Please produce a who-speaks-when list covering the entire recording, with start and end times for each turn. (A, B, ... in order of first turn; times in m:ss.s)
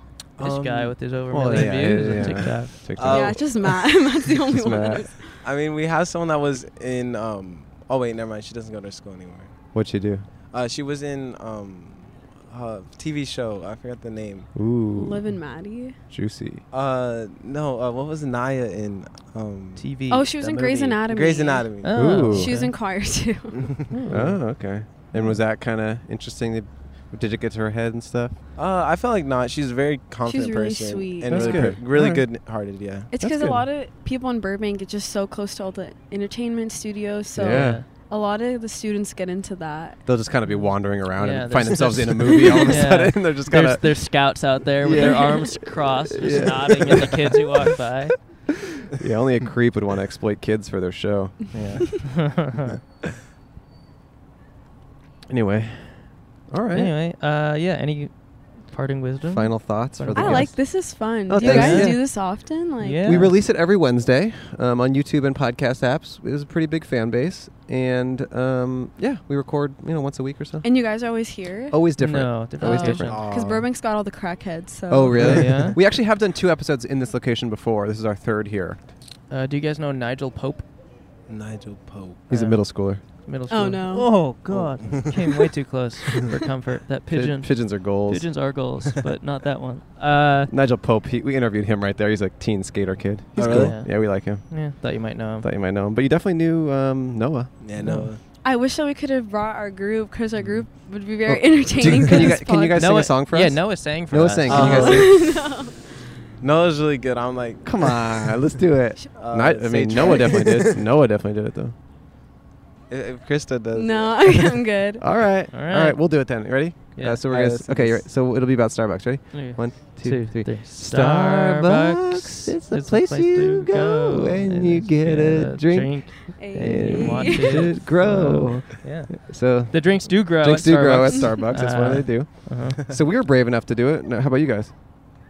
0:00.4-0:01.0 A
0:00.4-0:02.8 B
0:01.3-0:03.7 C
0:03.0-0:03.7 A
0:03.0-0:05.2 D
0:04.4-0:05.1 C
0:05.4-0:09.5 A
0:09.7-0:10.3 C
0:10.5-0:14.5 A
0:14.6-0:15.3 C
0:14.9-0:16.0 D
0:16.1-0:16.6 C
0:16.7-0:19.9 A
0:19.8-0:21.0 B
0:20.1-0:23.5 D
0:20.4-0:22.2 A
0:21.8-0:22.7 B
0:21.9-0:22.5 C
0:23.6-0:24.2 A
0:23.9-0:24.4 B
0:24.1-0:28.4 C
0:28.6-0:33.1 A
0:30.2-0:31.8 D
0:31.3-0:32.2 C
0:33.1-0:40.0 D
0:33.2-0:33.6 C
0:37.4-0:37.8 C
0:37.4-0:37.9 B
0:40.0-0:47.5 C
0:40.5-0:48.2 B
0:48.9-0:52.0 C
0:51.5-0:52.7 B
0:55.3-0:56.9 C
0:56.7-1:00.5 B
0:59.3-1:02.2 C
1:00.2-1:03.2 D
1:01.3-1:02.1 B
1:02.8-1:03.4 B
1:03.0-1:10.7 C
1:10.6-1:11.9 D
1:11.7-1:13.3 C
1:12.0-1:13.2 B
1:12.6-1:15.7 D
1:13.0-1:13.7 A
1:14.9-1:18.8 C
1:15.1-1:15.8 B
1:19.3-1:20.6 B
1:21.3-1:22.3 A
1:22.3-1:23.0 C
1:22.3-1:30.5 B
1:23.5-1:24.3 D
1:24.5-1:25.2 A
1:27.1-1:28.3 C
1:30.5-1:34.9 C
1:33.4-1:33.8 A
1:33.4-1:35.5 B
1:35.4-1:37.5 C
1:37.6-1:38.2 A
1:37.8-1:38.1 B
1:38.3-1:43.0 D
1:41.3-1:45.2 C
1:42.1-1:45.0 B
1:44.5-1:45.1 A
1:44.6-1:45.7 D
1:46.4-1:48.4 A
1:47.6-1:51.8 C
1:49.2-1:50.8 A
1:50.0-1:50.4 D
1:52.9-1:54.6 A
1:53.7-1:55.0 D
1:55.0-2:14.7 C
1:55.5-1:56.2 B
1:57.0-1:57.2 B
1:57.3-1:58.0 A
1:59.3-2:12.8 B
2:06.4-2:07.7 D